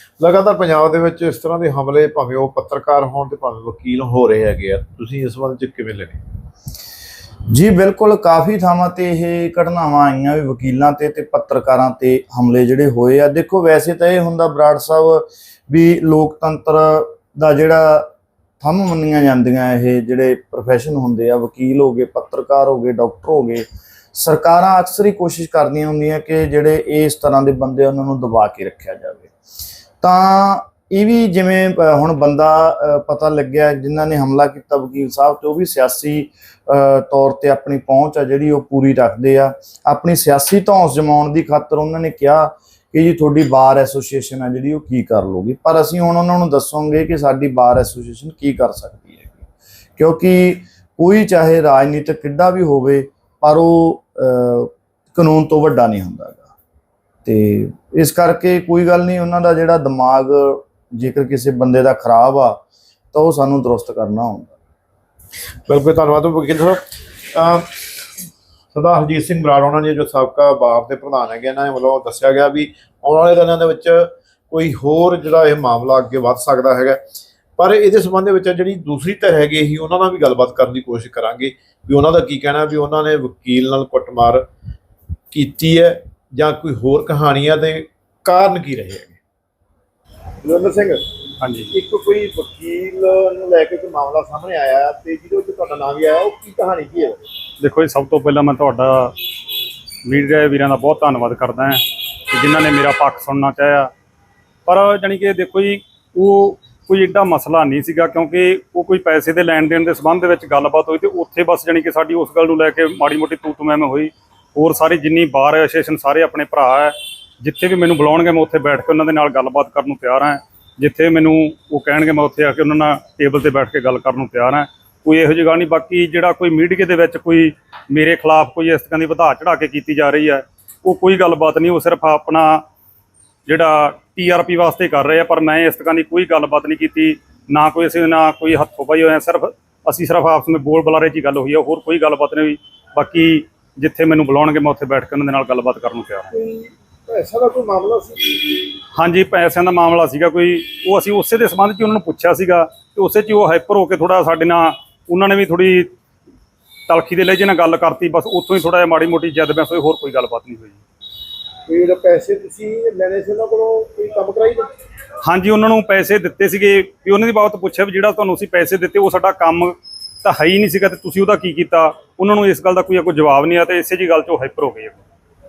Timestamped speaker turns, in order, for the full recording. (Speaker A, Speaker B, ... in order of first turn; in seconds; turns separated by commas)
Speaker A: 0.2-6.2, Speaker B: 7.5-18.1, Speaker B: 18.6-29.3, Speaker B: 30.0-49.4, Speaker B: 50.0-56.5, Speaker B: 57.2-62.6, Speaker B: 63.1-64.5, Speaker A: 65.7-66.8, Speaker A: 67.3-67.7, Speaker A: 68.7-77.0, Speaker A: 77.6-84.4, Speaker A: 85.3-89.2, Speaker A: 90.4-91.0, Speaker C: 91.4-91.7, Speaker A: 91.7-97.2, Speaker C: 97.6-99.2, Speaker C: 100.0-103.9, Speaker C: 104.7-132.6, Speaker C: 133.5-146.3, Speaker A: 146.3-148.8, Speaker C: 148.9-155.9, Speaker C: 156.9-160.8, Speaker A: 161.7-164.7, Speaker C: 165.2-175.0